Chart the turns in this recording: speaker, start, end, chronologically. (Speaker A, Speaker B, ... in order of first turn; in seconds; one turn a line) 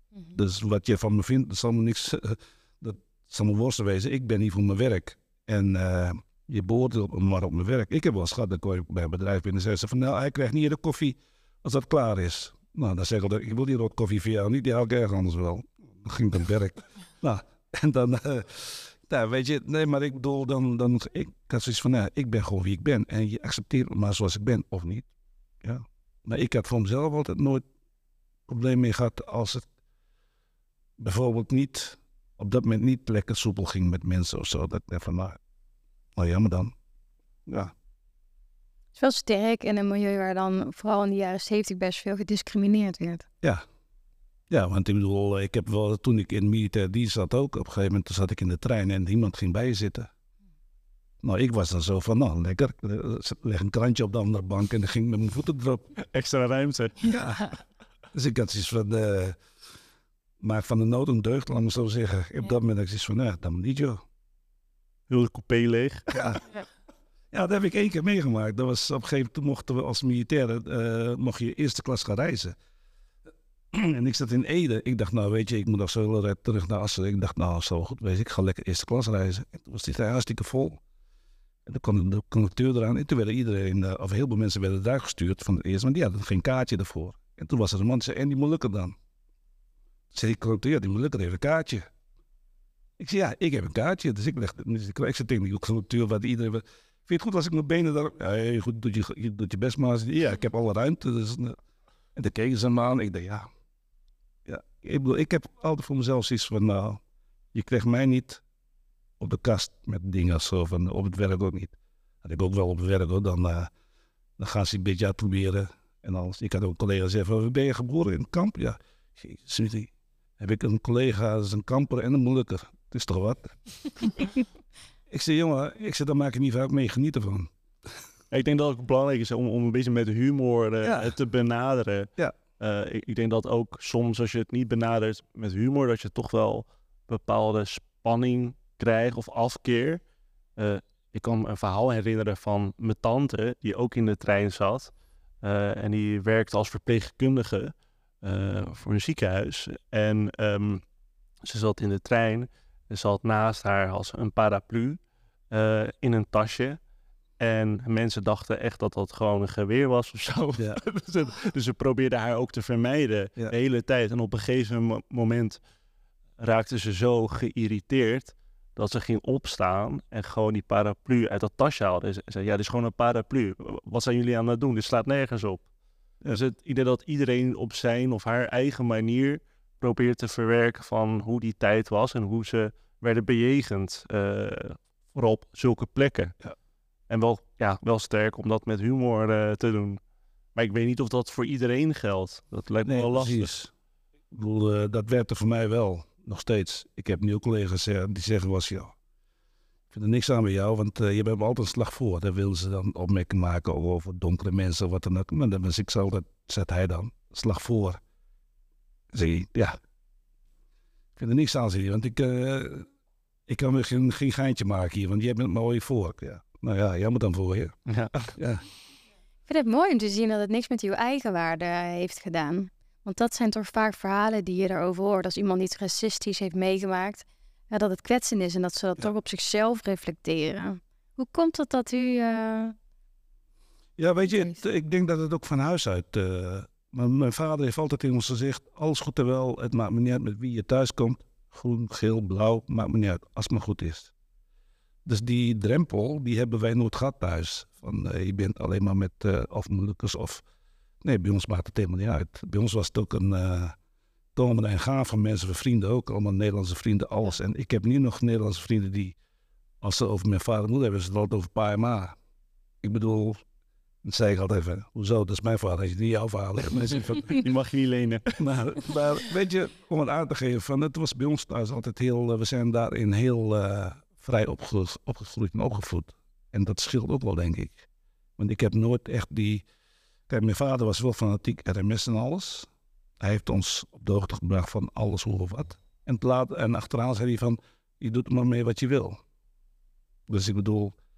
Speaker A: 0.3-25.1
Speaker A: 25.6-27.6
Speaker A: 28.5-29.7
Speaker A: 31.0-35.4
Speaker A: 36.2-36.7
Speaker A: 37.5-37.7
Speaker B: 39.0-43.3
Speaker A: 44.5-50.1
Speaker A: 51.2-55.9
Speaker C: 56.0-57.1
Speaker A: 57.1-57.5
Speaker A: 58.1-59.4
Speaker A: 60.4-64.0
Speaker C: 65.1-66.1
Speaker A: 66.1-66.4
Speaker A: 67.3-72.6
Speaker A: 73.7-80.8
Speaker A: 81.7-89.0
Speaker A: 90.1-91.9
Speaker A: 93.0-101.6
Speaker A: 102.2-103.5
Speaker A: 104.5-107.0
Speaker A: 107.5-108.4
Speaker A: 109.2-113.7
Speaker A: 114.4-124.3
Speaker A: 125.1-127.5
Speaker C: 128.3-140.0
Speaker A: 130.8-131.1
Speaker C: 140.6-144.9
Speaker C: 145.4-150.8
Speaker C: 151.4-155.0
Speaker C: 155.5-156.8
Speaker C: 157.4-165.6
Speaker C: 166.4-175.7
Speaker C: 176.3-186.3
Speaker C: 187.1-190.0
Speaker C: 190.6-193.5
Speaker A: 192.8-193.7
Speaker A: 194.3-198.9
Speaker A: 199.9-208.0
Speaker A: 209.1-209.8
Speaker A: 211.2-212.9
Speaker A: 213.5-218.7
Speaker C: 217.9-218.2
Speaker B: 219.5-232.8
Speaker A: 234.0-244.1
Speaker A: 245.1-250.4
Speaker A: 251.0-253.8
Speaker A: 254.3-259.1
Speaker A: 259.8-262.2
Speaker A: 262.8-263.4
Speaker A: 264.0-267.4
Speaker C: 267.2-268.3
Speaker A: 268.4-277.9
Speaker A: 278.4-279.6
Speaker A: 280.3-282.7
Speaker A: 283.2-289.2
Speaker A: 290.3-290.9